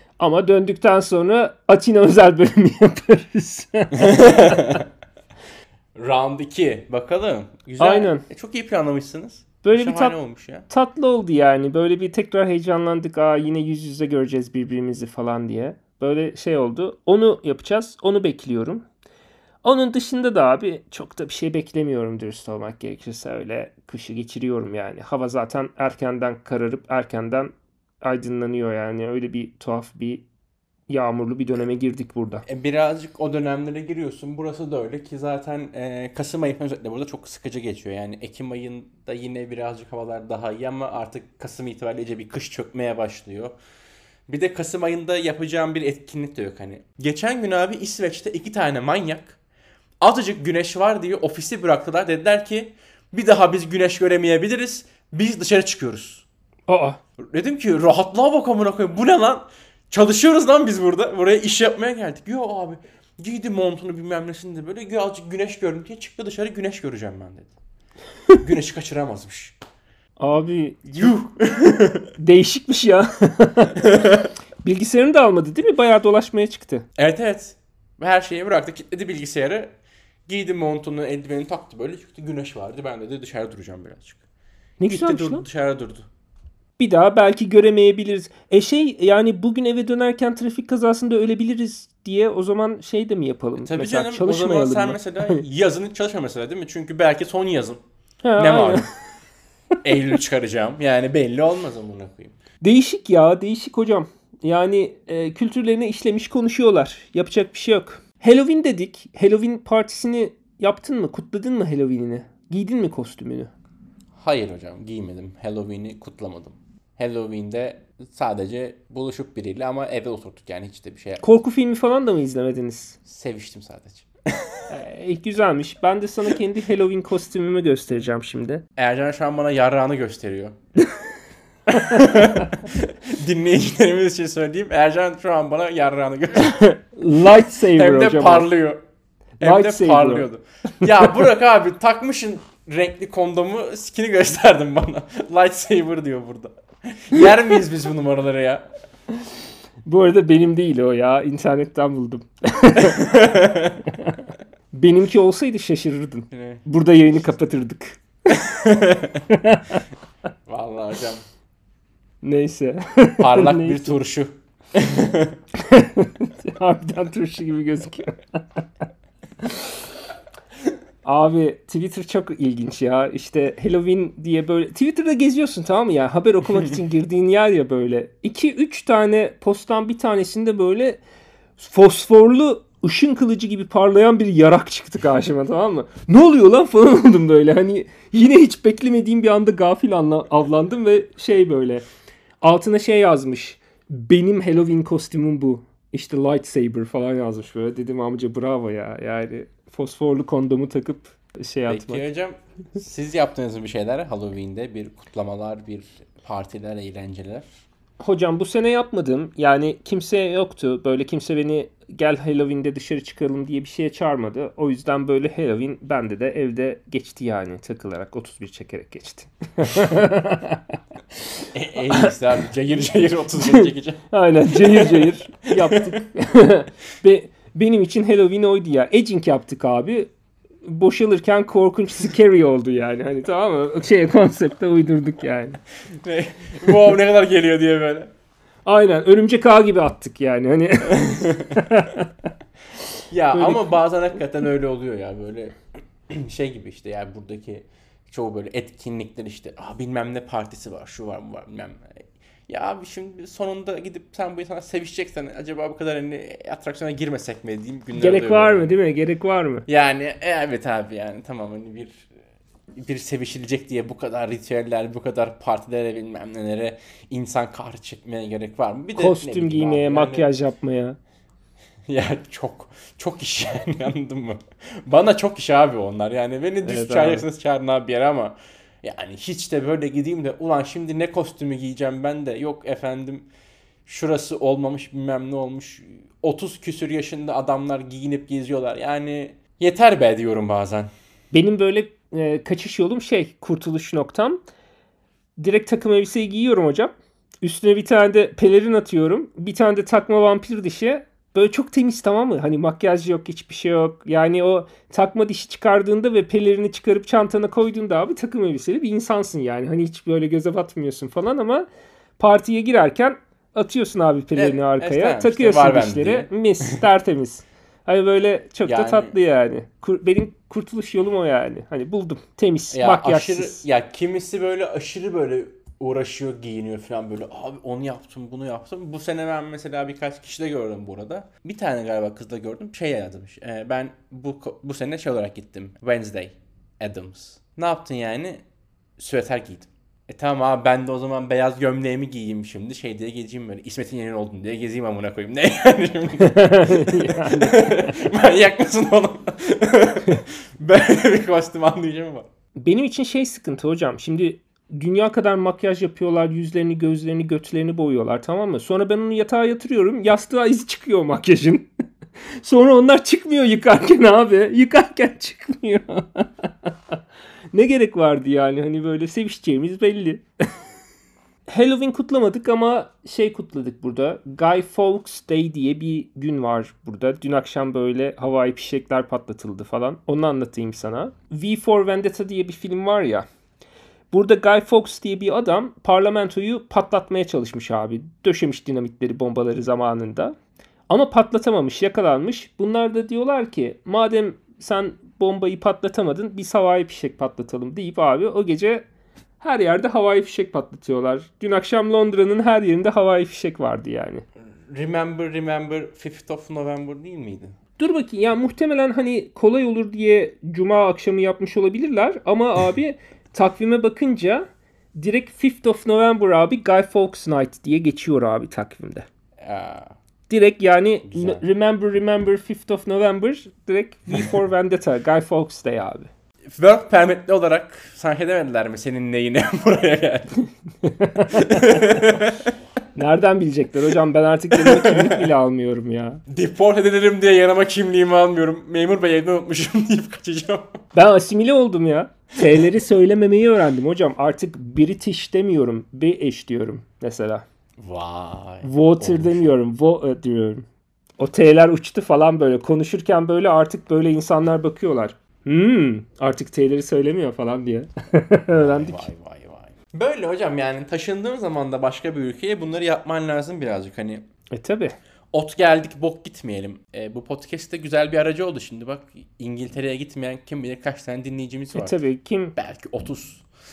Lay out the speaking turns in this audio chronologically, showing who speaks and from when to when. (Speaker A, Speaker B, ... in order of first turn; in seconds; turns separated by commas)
Speaker A: 0.2-4.8, Speaker B: 4.0-4.9, Speaker B: 6.0-10.7, Speaker A: 7.8-8.2, Speaker A: 9.6-10.2, Speaker A: 10.7-18.8, Speaker A: 19.6-27.5, Speaker A: 28.0-30.2, Speaker A: 30.9-32.5, Speaker B: 32.5-43.5, Speaker B: 44.3-49.4, Speaker B: 50.0-56.2, Speaker A: 56.7-57.0, Speaker B: 57.3-67.5, Speaker B: 68.4-69.5, Speaker A: 70.2-71.1, Speaker B: 70.9-72.1, Speaker A: 72.2-73.8, Speaker B: 73.8-74.3, Speaker A: 74.6-76.8, Speaker B: 77.0-79.7, Speaker B: 80.3-84.2, Speaker A: 84.8-85.5, Speaker B: 84.9-86.1, Speaker A: 86.8-95.4, Speaker B: 93.6-97.8, Speaker A: 98.2-98.9, Speaker B: 98.4-98.8, Speaker B: 99.8-102.4, Speaker A: 102.6-113.5, Speaker B: 114.2-121.2, Speaker A: 121.2-123.0, Speaker B: 123.0-124.7, Speaker A: 124.7-128.6, Speaker B: 128.8-130.6, Speaker B: 131.7-136.6, Speaker A: 131.8-132.5, Speaker A: 136.4-138.5, Speaker B: 137.7-138.8, Speaker B: 139.4-148.7, Speaker A: 139.4-140.3, Speaker A: 149.8-153.2, Speaker B: 152.8-153.8, Speaker A: 153.9-158.0, Speaker B: 156.3-156.6, Speaker B: 158.3-159.2, Speaker A: 159.3-159.8, Speaker B: 160.5-161.2, Speaker A: 162.2-163.9, Speaker B: 163.2-165.4, Speaker A: 165.6-168.7, Speaker A: 169.4-169.8, Speaker A: 171.0-181.0, Speaker A: 181.6-191.8, Speaker A: 192.4-202.0, Speaker B: 201.7-207.5, Speaker A: 208.0-220.8, Speaker B: 221.5-225.9, Speaker A: 223.4-230.1, Speaker A: 230.6-235.6, Speaker B: 236.0-238.1, Speaker A: 238.7-242.3, Speaker B: 240.9-241.6, Speaker B: 243.1-245.5, Speaker A: 243.3-243.8, Speaker B: 246.1-258.7, Speaker A: 257.9-259.6, Speaker B: 259.7-262.1, Speaker B: 262.8-270.3, Speaker A: 269.0-271.0, Speaker B: 271.9-283.3, Speaker A: 276.6-277.2, Speaker B: 283.9-290.9, Speaker A: 291.3-294.4, Speaker A: 295.4-311.6, Speaker A: 312.2-323.6, Speaker B: 314.4-316.8, Speaker B: 318.6-319.1, Speaker B: 322.7-338.4, Speaker B: 339.0-352.3, Speaker A: 346.3-347.9, Speaker A: 352.6-361.7, Speaker A: 362.4-367.0, Speaker A: 367.5-370.2, Speaker A: 371.5-383.3, Speaker A: 384.1-390.4, Speaker A: 390.9-398.9, Speaker A: 399.4-404.2, Speaker B: 404.7-407.5, Speaker A: 407.8-419.1, Speaker B: 419.4-419.9, Speaker A: 420.3-426.1, Speaker B: 421.1-421.4, Speaker B: 426.5-430.4, Speaker A: 430.8-431.8, Speaker B: 431.3-432.6, Speaker A: 432.9-436.2, Speaker B: 434.5-435.3, Speaker B: 436.3-440.8, Speaker A: 440.9-447.4, Speaker B: 447.8-449.5, Speaker A: 448.6-450.6, Speaker A: 451.2-459.1, Speaker B: 458.5-464.2, Speaker A: 464.5-465.0, Speaker B: 465.3-471.9, Speaker A: 471.7-472.6, Speaker B: 472.6-473.4